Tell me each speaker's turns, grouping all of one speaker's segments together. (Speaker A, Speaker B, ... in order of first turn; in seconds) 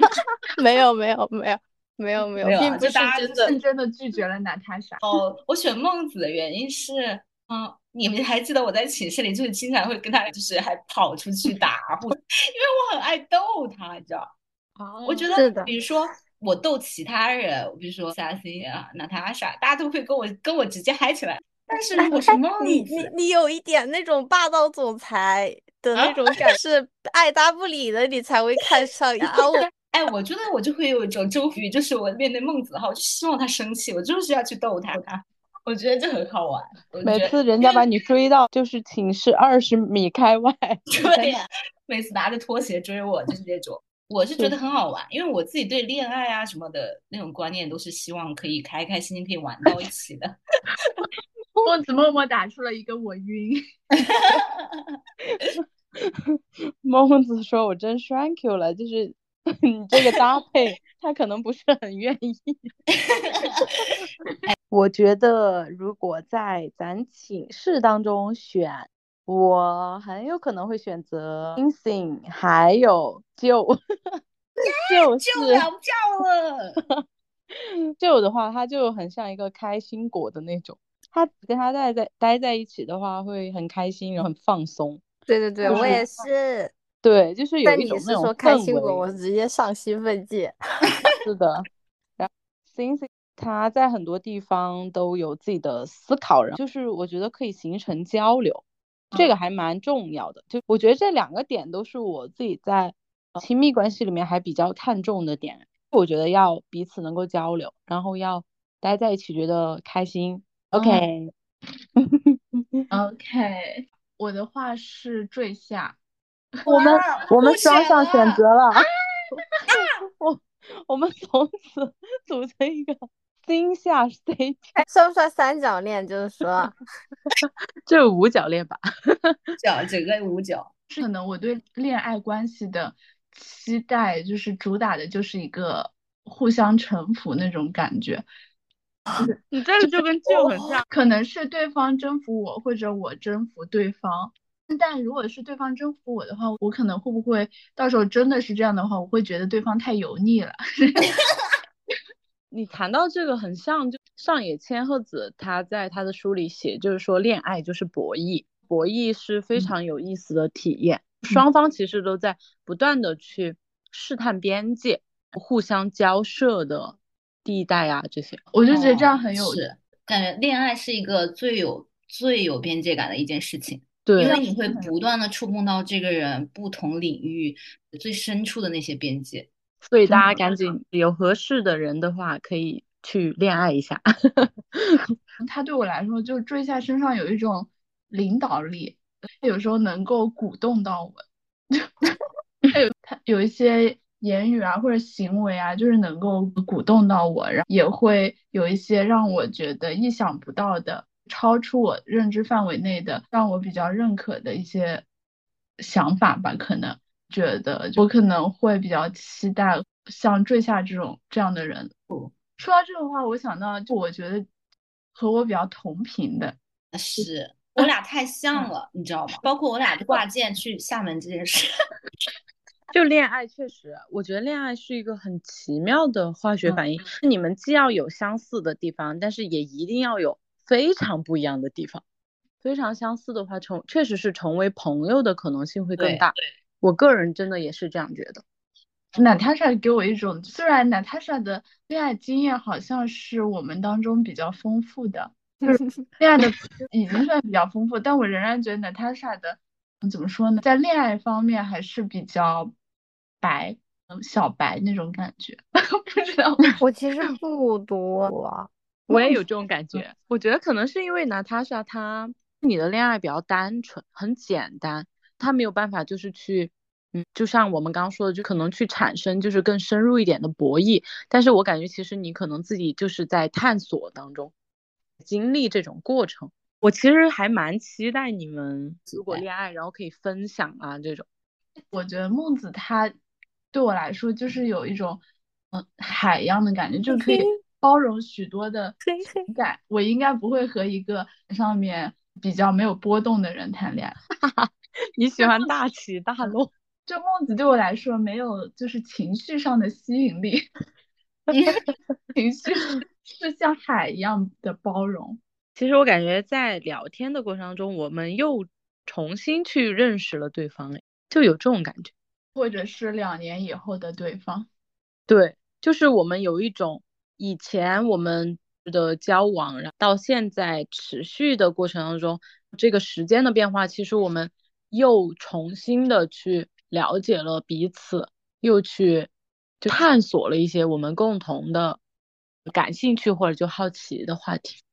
Speaker A: 0.5-3.4, 15.3-15.7, 22.0-29.7, 85.3-86.7, 87.6-90.5, 124.8-126.7, 256.8-259.4, 289.2-289.5
Speaker B: 2.4-3.5, 5.0-14.3, 15.0-23.1, 29.9-37.9, 40.9-51.0, 54.0-55.0, 62.9-64.5, 74.6-76.8, 85.7-86.0, 116.7-118.4, 129.6-130.7, 168.7-179.5, 216.9-221.7, 236.0-236.3, 279.1-279.4, 301.5-301.8
Speaker C: 3.3-5.0, 51.6-53.6, 112.9-116.0, 116.6-117.2, 119.3-119.6, 130.9-138.2, 140.9-151.2, 168.5-169.6, 174.2-174.9, 180.1-180.4, 185.4-205.0, 205.8-211.9, 212.6-214.5, 215.1-216.6, 239.1-252.7, 253.4-256.7, 281.9-283.1, 283.7-285.2, 285.7-294.2, 295.4-295.7, 297.1-300.6, 302.3-305.4, 312.5-314.7
Speaker D: 14.8-15.1, 37.0-40.8, 55.2-62.7, 64.7-74.2, 74.7-75.7, 76.8-85.0, 85.6-86.0, 87.0-89.0, 91.2-111.3, 112.0-112.9, 116.7-118.9, 119.7-124.7, 127.4-129.6, 139.5-140.8, 152.5-168.4, 174.1-174.4, 179.8-185.1, 222.9-232.0, 232.6-238.4, 259.1-274.5, 275.2-281.2, 294.3-296.7, 305.8-312.1, 315.3-329.3, 329.8-332.0, 332.6-334.8